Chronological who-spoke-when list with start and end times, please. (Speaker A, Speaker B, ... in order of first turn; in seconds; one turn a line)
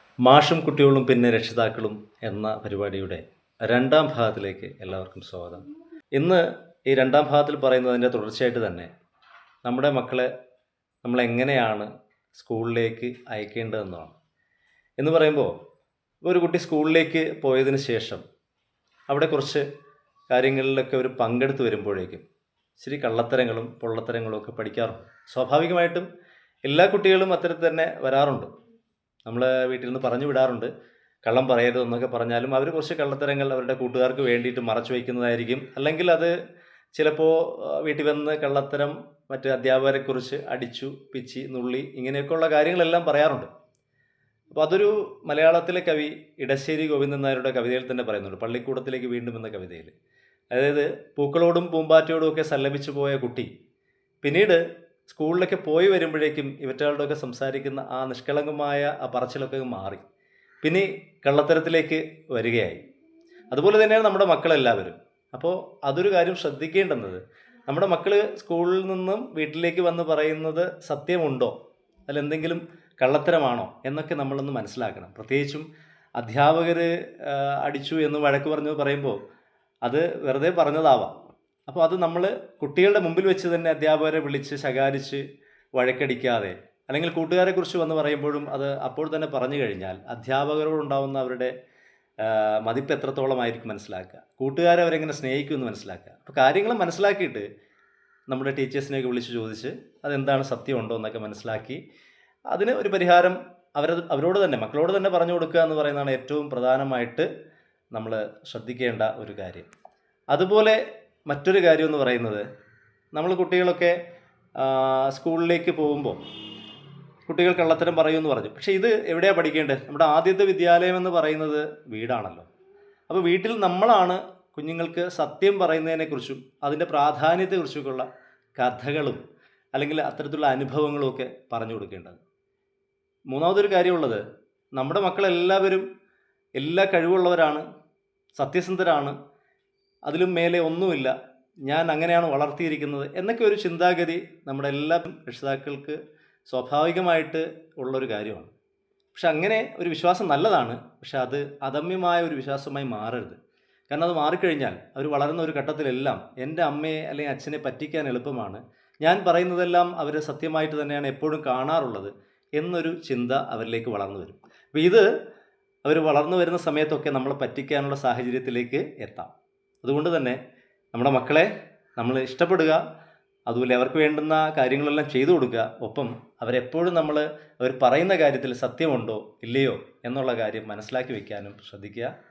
Speaker A: 0.2-8.9
Speaker A: 9.6-10.3
Speaker A: 11.0-14.1
Speaker A: 15.0-15.5
Speaker A: 16.2-18.2
Speaker A: 19.1-19.6
Speaker A: 20.3-22.2
Speaker A: 22.8-26.1
Speaker A: 26.6-28.5
Speaker A: 29.2-30.7
Speaker A: 31.2-36.3
Speaker A: 36.9-43.5
Speaker A: 44.5-49.9
Speaker A: 50.5-53.5
Speaker A: 54.2-60.0
Speaker A: 60.6-62.8
Speaker A: 63.5-71.5
Speaker A: 72.1-75.7
Speaker A: 76.2-79.2
Speaker A: 79.8-81.2
Speaker A: 81.7-85.2
Speaker A: 85.8-91.5
Speaker A: 92.2-97.5
Speaker A: 98.3-101.8
Speaker A: 102.5-107.3
Speaker A: 107.9-109.7
Speaker A: 110.3-112.4
Speaker A: 113.1-113.9
Speaker A: 114.6-116.2
Speaker A: 117.3-122.5
Speaker A: 123.1-129.2
Speaker A: 129.7-132.2
Speaker A: 133.3-134.2
Speaker A: 134.8-135.8
Speaker A: 136.6-137.6
Speaker A: 138.3-139.1
Speaker A: 140.0-148.5
Speaker A: 149.1-153.4
Speaker A: 153.9-165.1
Speaker A: 165.8-169.3
Speaker A: 169.8-170.4
Speaker A: 170.9-172.8
Speaker A: 173.5-182.1